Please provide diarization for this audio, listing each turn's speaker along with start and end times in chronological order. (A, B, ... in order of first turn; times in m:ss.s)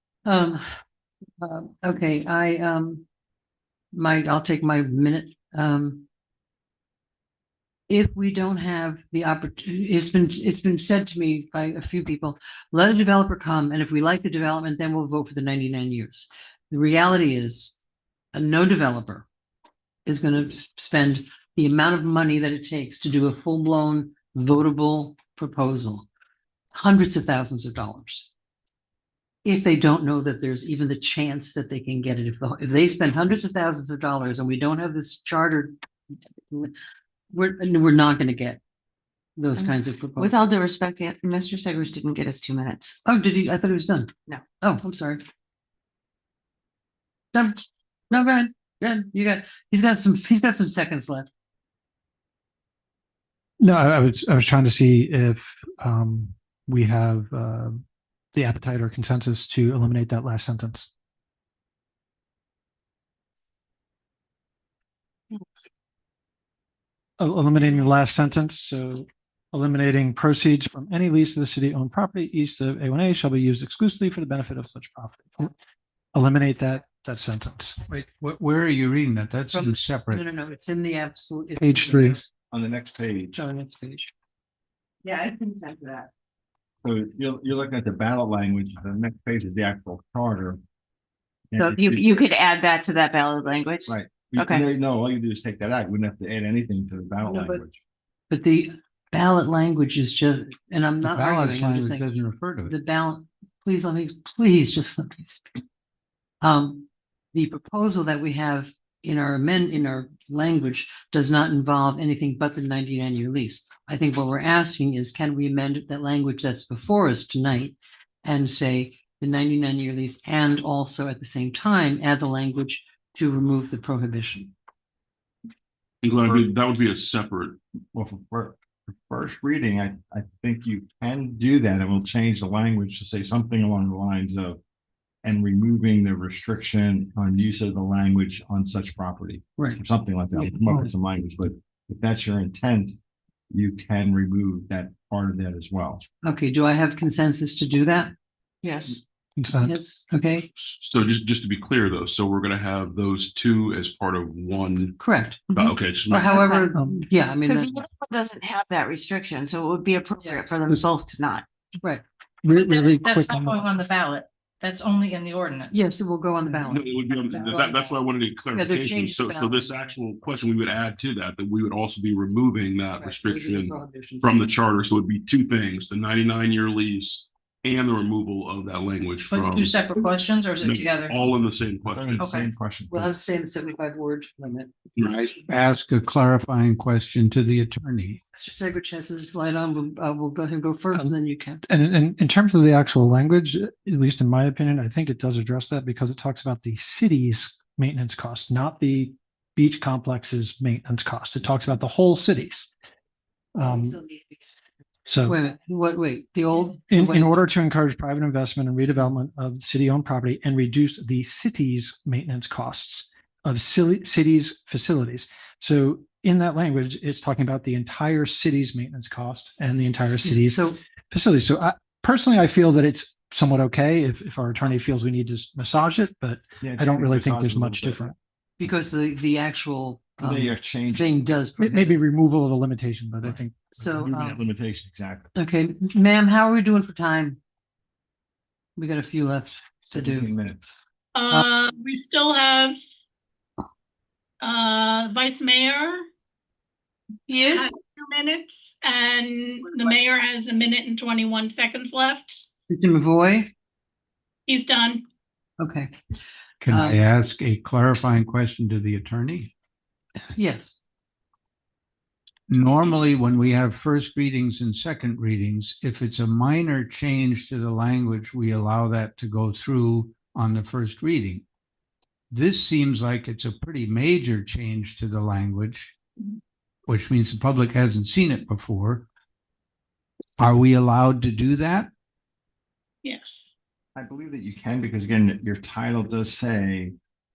0:00.2-0:00.7 A
0:01.4-0:03.0 A
0:03.9-0:06.0 A
0:07.9-0:17.8 A
0:18.3-0:19.2 A
0:20.0-0:26.1 A
0:26.7-0:28.3 A
0:29.4-0:35.8 A
0:36.5-0:36.7 A
0:37.3-0:38.6 A
0:39.4-0:40.6 A
0:39.6-0:43.0 B
0:43.0-0:44.1 A
0:44.6-0:45.2 A
0:47.3-0:51.3 A
0:53.6-0:57.8 C
0:58.3-1:00.9 C
1:07.2-1:15.5 C
1:16.1-1:17.8 C
1:17.8-1:20.2 D
1:19.5-1:22.2 A
1:21.6-1:22.2 C
1:22.5-1:23.4 E
1:23.4-1:24.1 A
1:25.0-1:26.1 B
1:26.8-1:30.6 E
1:31.5-1:32.2 E
1:31.6-1:34.6 B
1:33.8-1:37.8 E
1:37.2-1:37.6 A
1:38.3-1:42.1 A
1:41.0-1:42.7 D
1:42.7-1:45.6 A
1:46.4-2:04.5 A
2:06.0-2:07.6 F
2:07.9-2:14.6 E
2:15.2-2:23.0 E
2:23.5-2:26.0 E
2:26.2-2:28.1 A
2:28.6-2:29.0 B
2:29.4-2:29.8 C
2:29.6-2:30.5 A
2:30.5-2:35.0 F
2:35.0-2:35.4 A
2:35.5-2:36.7 B
2:35.5-2:36.5 F
2:36.1-2:37.8 A
2:37.4-2:41.4 B
2:42.4-2:43.6 C
2:42.6-2:45.8 G
2:45.7-2:47.9 A
2:46.5-2:59.8 F
2:48.5-2:49.8 A
2:53.0-2:54.5 A
2:59.3-3:01.2 G
3:00.6-3:02.2 F
3:01.8-3:03.1 E
3:02.2-3:02.5 G
3:02.9-3:04.7 A
3:05.0-3:08.2 D
3:08.4-3:11.6 A
3:11.6-3:22.7 C
3:23.6-3:24.0 C
3:25.0-3:25.4 C
3:25.2-3:27.4 A
3:26.9-3:48.1 C
3:40.2-3:40.8 A
3:46.6-3:48.1 E
3:48.6-3:52.0 A
3:50.2-3:51.1 E
3:51.6-3:54.4 C
3:53.2-3:54.2 A
3:54.0-3:55.3 E
3:55.3-3:57.4 A
3:58.8-4:00.3 A
3:59.9-4:00.8 E
4:01.1-4:02.8 H
4:04.4-4:06.1 H
4:07.3-4:07.6 A
4:07.5-4:12.4 H
4:12.7-4:13.5 A
4:14.5-4:15.0 H
4:15.6-4:15.9 A
4:16.6-4:19.5 D
4:16.7-4:17.0 A
4:20.3-4:20.8 A
4:22.5-4:31.4 D
4:32.3-4:35.9 D
4:36.9-4:39.0 D
4:40.4-4:41.9 D
4:43.0-4:43.5 H
4:43.9-4:46.9 E